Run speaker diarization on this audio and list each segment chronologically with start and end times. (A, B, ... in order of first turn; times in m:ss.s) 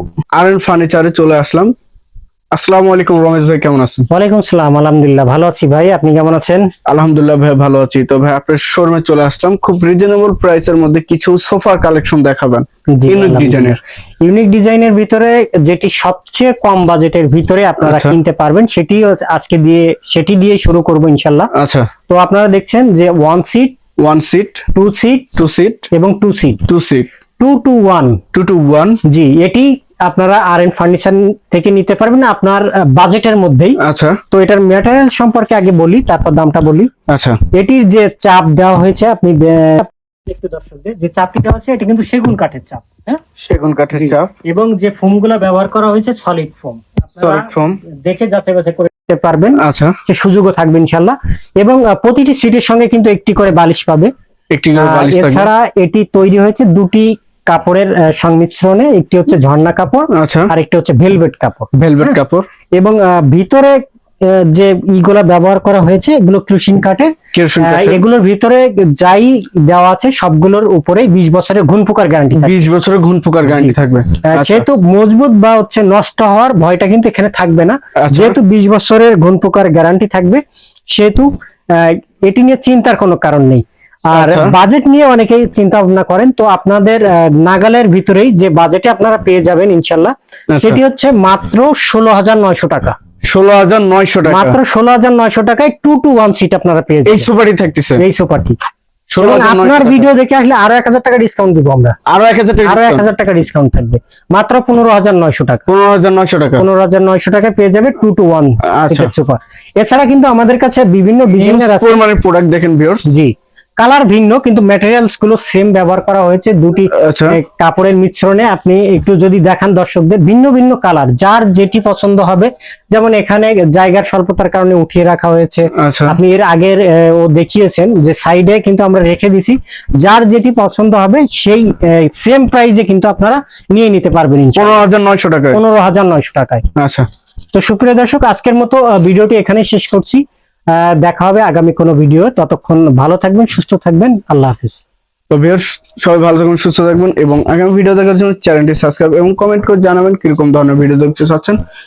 0:00.4-0:01.7 A
0:02.5-0:04.0 A
0:04.1-0:06.6 B
0:06.9-0:13.8 A
0:13.0-0:21.5 B
0:17.8-0:18.1 A
0:21.5-0:21.9 A
0:22.1-0:23.8 B
0:24.0-0:24.6 A
0:24.8-0:25.3 B
0:25.4-0:25.9 A
0:25.9-0:26.6 B
0:26.6-0:27.1 A
0:27.4-0:28.2 B
0:28.3-0:29.0 A
0:29.1-0:33.8 B
0:33.8-0:34.2 A
0:34.3-0:36.9 B
0:37.1-0:37.4 A
0:37.5-0:43.2 B
0:43.4-0:44.3 A
0:43.9-0:54.1 B
0:47.2-0:47.8 A
0:49.6-0:50.0 A
0:54.5-0:55.5 A
0:54.8-1:02.1 B
1:00.1-1:00.5 A
1:01.8-1:02.4 A
1:02.8-1:12.6 B
1:07.3-1:08.0 A
1:12.3-1:14.7 A
1:13.5-1:13.8 B
1:14.3-1:33.0 B
1:18.0-1:18.4 A
1:24.1-1:24.6 A
1:30.5-1:30.8 A
1:33.2-1:34.6 A
1:34.3-1:37.3 B
1:37.1-1:38.0 A
1:38.0-1:38.6 B
1:39.1-1:40.1 A
1:39.2-1:42.0 B
1:42.1-1:43.0 A
1:42.6-1:45.6 B
1:45.7-1:46.6 A
1:46.6-1:52.0 B
1:48.6-1:49.1 A
1:51.3-1:53.1 A
1:53.1-2:14.8 B
1:56.9-1:57.4 A
2:05.7-2:06.2 A
2:14.6-2:15.6 A
2:15.5-2:16.6 B
2:16.8-2:17.1 A
2:17.5-2:20.2 B
2:20.7-2:24.8 B
2:25.3-2:31.6 A